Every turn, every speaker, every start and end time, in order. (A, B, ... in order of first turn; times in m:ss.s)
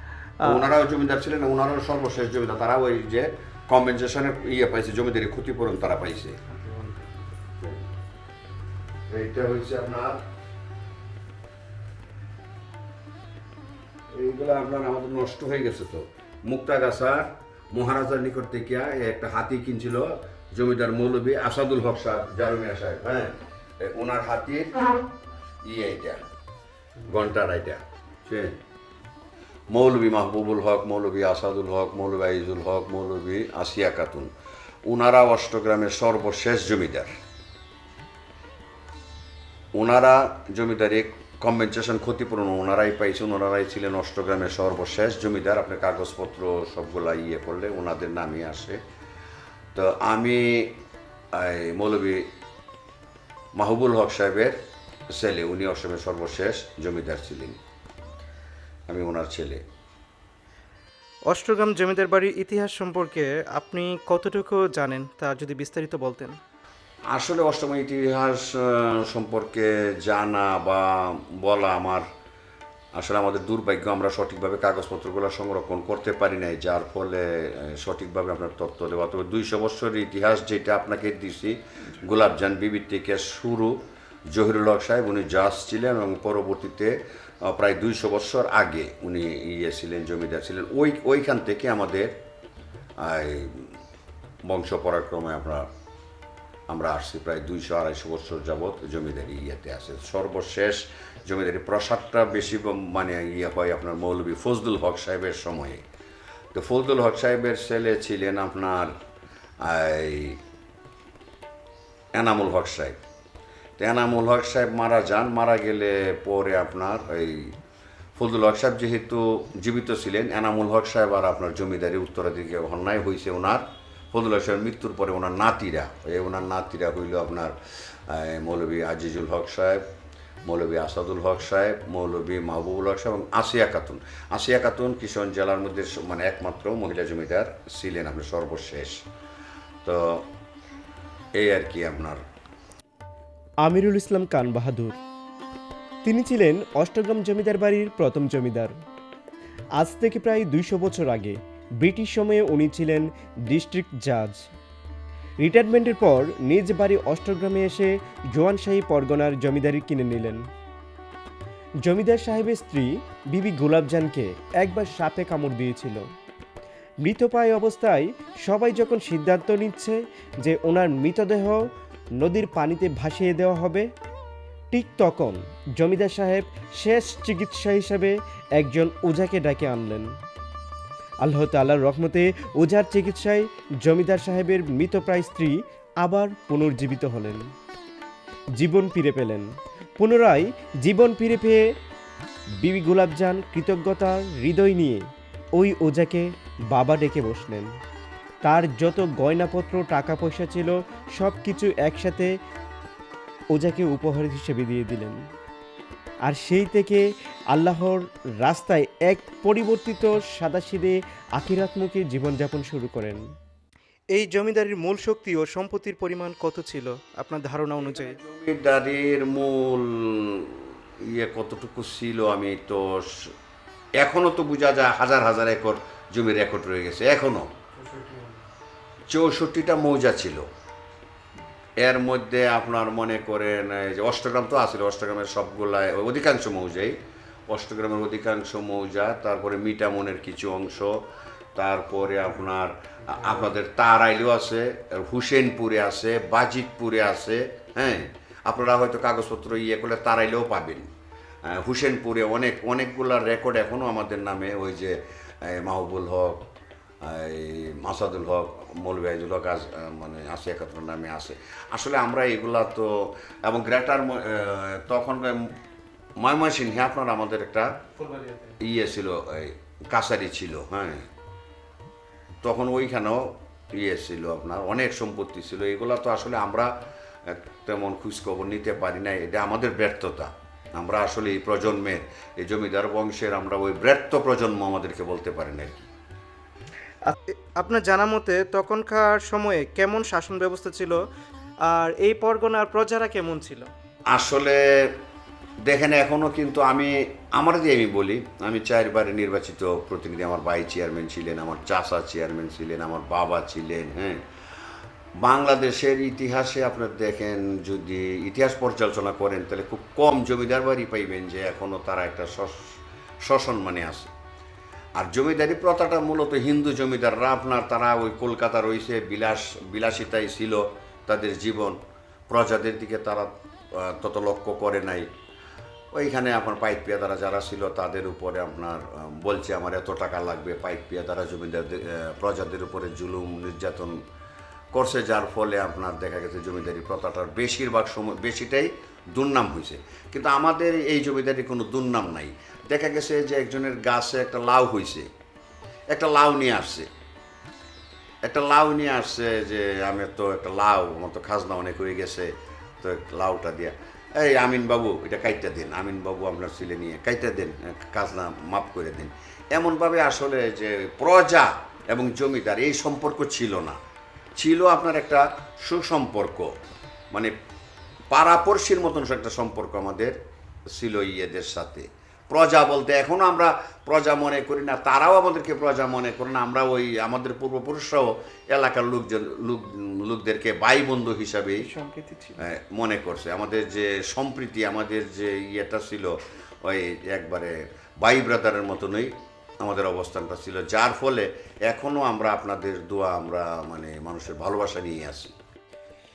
0:00.4-0:00.7 A
0:00.4-0:06.4 B
0:09.1-0:10.2 B
0:14.1-0:24.8 B
0:25.6-0:26.2 B
0:27.1-0:28.6 B
0:29.7-0:34.3 B
0:34.9-0:37.1 B
0:39.8-0:48.8 B
0:49.7-0:50.8 B
0:51.4-0:52.3 B
0:53.6-0:54.6 B
0:55.1-0:57.6 B
0:58.9-0:59.6 B
1:01.3-1:06.4 A
1:07.1-1:12.1 B
1:12.9-1:32.2 B
1:33.0-1:33.7 B
1:34.5-1:35.7 B
1:36.7-1:45.8 B
1:46.5-1:48.9 B
1:49.6-1:50.4 B
1:52.1-1:53.0 B
1:53.8-1:57.6 B
1:58.2-2:07.6 B
2:08.1-2:09.9 B
2:10.5-2:19.0 B
2:19.8-2:20.2 B
2:21.4-2:22.2 B
2:23.6-2:25.0 C
2:26.0-2:28.7 C
2:29.8-2:34.4 C
2:35.4-2:40.4 C
2:41.8-2:46.0 C
2:47.0-2:51.6 C
2:52.2-2:53.9 C
2:54.7-3:00.1 C
3:01.2-3:07.4 C
3:08.6-3:09.5 C
3:10.0-3:11.6 C
3:12.6-3:15.0 C
3:15.6-3:17.7 C
3:18.4-3:22.3 C
3:23.5-3:25.2 C
3:26.3-3:33.2 C
3:34.1-3:38.2 A
3:37.8-3:43.3 B
3:44.0-3:47.5 B
3:47.8-3:48.2 A
3:49.1-3:50.4 B
3:51.8-3:57.0 B
3:57.5-4:01.0 B
4:01.6-4:10.9 B
4:11.5-4:16.4 B
4:17.0-4:25.5 B
4:26.2-4:27.7 B
4:28.0-4:28.5 A
4:28.6-4:31.1 B
4:32.4-4:36.7 B
4:37.3-4:45.9 B
4:47.1-4:51.0 A
4:51.7-4:53.7 A
4:54.1-4:54.9 B
4:55.6-5:04.2 B
5:05.2-5:12.7 B
5:13.2-5:14.1 B
5:15.0-5:25.1 B
5:25.9-5:34.0 B
5:34.7-5:45.1 B
5:45.9-5:46.9 B
5:48.2-6:03.8 B
6:04.4-6:06.6 B
6:08.1-6:10.2 B
6:10.7-6:21.7 B
6:21.6-6:22.4 A
6:22.4-6:35.4 B